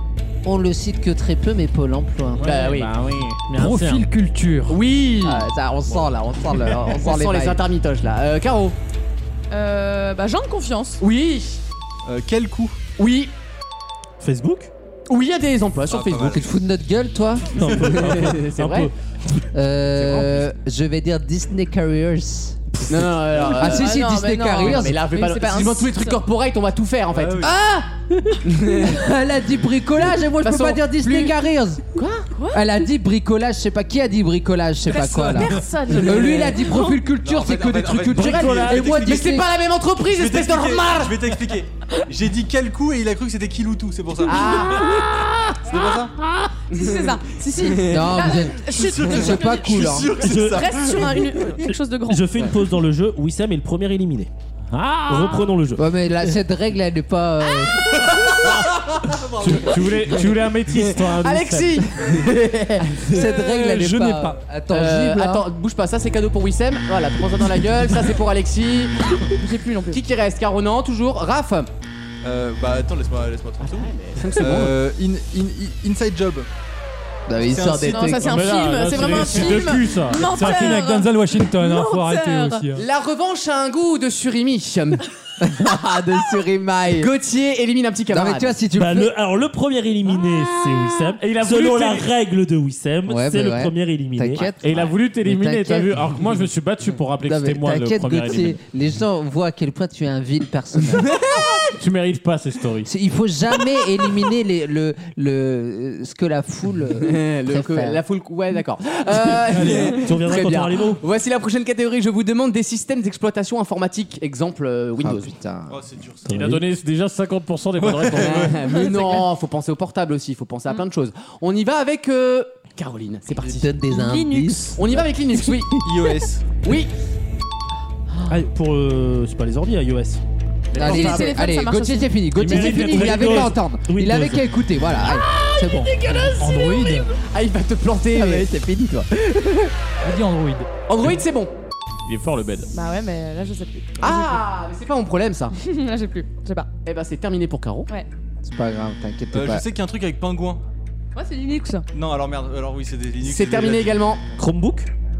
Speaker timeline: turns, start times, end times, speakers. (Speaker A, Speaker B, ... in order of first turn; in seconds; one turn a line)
Speaker A: 0.4-2.5
Speaker B: 2.4-4.1
Speaker C: 2.4-2.9
Speaker D: 3.5-4.8
Speaker C: 4.7-5.5
Speaker A: 5.2-7.6
Speaker C: 7.0-8.8
Speaker E: 9.5-11.0
Speaker C: 11.0-11.6
Speaker F: 12.1-12.8
Speaker C: 13.0-13.3
Speaker G: 14.2-14.7
Speaker C: 15.1-16.5
Speaker F: 15.9-16.5
Speaker A: 16.2-17.5
Speaker G: 17.6-18.9
Speaker F: 17.6-18.0
Speaker C: 17.7-18.9
Speaker A: 19.5-22.8
Speaker C: 22.9-27.6
Speaker E: 23.5-26.2
Speaker A: 23.6-25.0
Speaker F: 27.1-27.6
Speaker A: 27.4-27.9
Speaker C: 28.4-29.0
Speaker A: 28.7-31.9
Speaker C: 30.4-31.4
Speaker C: 31.9-32.3
Speaker E: 32.3-32.8
Speaker A: 32.5-39.5
Speaker E: 34.9-37.1
Speaker C: 36.0-36.5
Speaker F: 37.2-39.4
Speaker B: 38.1-38.9
Speaker C: 38.5-41.2
Speaker F: 40.0-44.8
Speaker C: 44.3-45.1
Speaker B: 44.8-45.3
Speaker F: 45.7-46.1
Speaker E: 46.7-52.3
Speaker C: 46.7-47.1
Speaker C: 47.6-48.2
Speaker A: 47.9-50.1
Speaker F: 48.7-51.2
Speaker G: 50.2-50.7
Speaker G: 52.1-54.3
Speaker B: 54.7-55.5
Speaker G: 55.1-55.9
Speaker A: 55.8-58.4
Speaker F: 59.1-59.7
Speaker B: 59.4-61.9
Speaker C: 60.7-63.4
Speaker A: 62.1-65.5
Speaker D: 63.2-64.4
Speaker C: 64.7-69.0
Speaker E: 69.2-70.0
Speaker C: 69.9-71.7
Speaker F: 72.2-76.5
Speaker C: 73.6-74.8
Speaker A: 77.3-78.4
Speaker F: 77.4-78.3
Speaker E: 77.8-82.7
Speaker B: 78.2-80.7
Speaker D: 80.2-82.8
Speaker C: 82.8-85.0
Speaker A: 85.4-87.1
Speaker C: 87.0-88.6
Speaker A: 88.1-89.1
Speaker G: 88.7-94.5
Speaker B: 91.2-92.1
Speaker A: 93.1-96.2
Speaker B: 94.6-98.6
Speaker A: 97.2-101.1
Speaker C: 101.0-101.6
Speaker B: 101.8-102.9
Speaker A: 102.8-108.0
Speaker C: 107.0-115.3
Speaker D: 109.5-110.1
Speaker G: 109.9-111.0
Speaker A: 115.0-115.8
Speaker F: 115.7-116.3
Speaker G: 116.3-116.7
Speaker B: 116.3-118.6
Speaker F: 117.8-118.5
Speaker C: 118.1-123.7
Speaker E: 118.6-119.2
Speaker A: 123.4-125.6
Speaker E: 123.8-124.8
Speaker C: 124.8-125.8
Speaker F: 125.8-126.6
Speaker C: 126.6-126.9
Speaker G: 128.3-130.2
Speaker B: 130.7-131.3
Speaker A: 130.7-136.3
Speaker E: 130.8-132.2
Speaker B: 132.3-133.6
Speaker G: 132.4-134.4
Speaker E: 136.1-137.0
Speaker D: 136.4-137.1
Speaker C: 137.3-138.5
Speaker A: 138.1-139.7
Speaker D: 140.0-140.7
Speaker C: 140.9-141.5
Speaker B: 142.1-142.7
Speaker E: 142.7-144.4
Speaker C: 144.0-145.5
Speaker E: 145.5-146.7
Speaker C: 146.8-147.9
Speaker A: 148.4-149.7
Speaker F: 149.3-150.6
Speaker E: 151.2-151.9
Speaker F: 151.9-154.1
Speaker C: 153.2-154.2
Speaker G: 154.4-154.9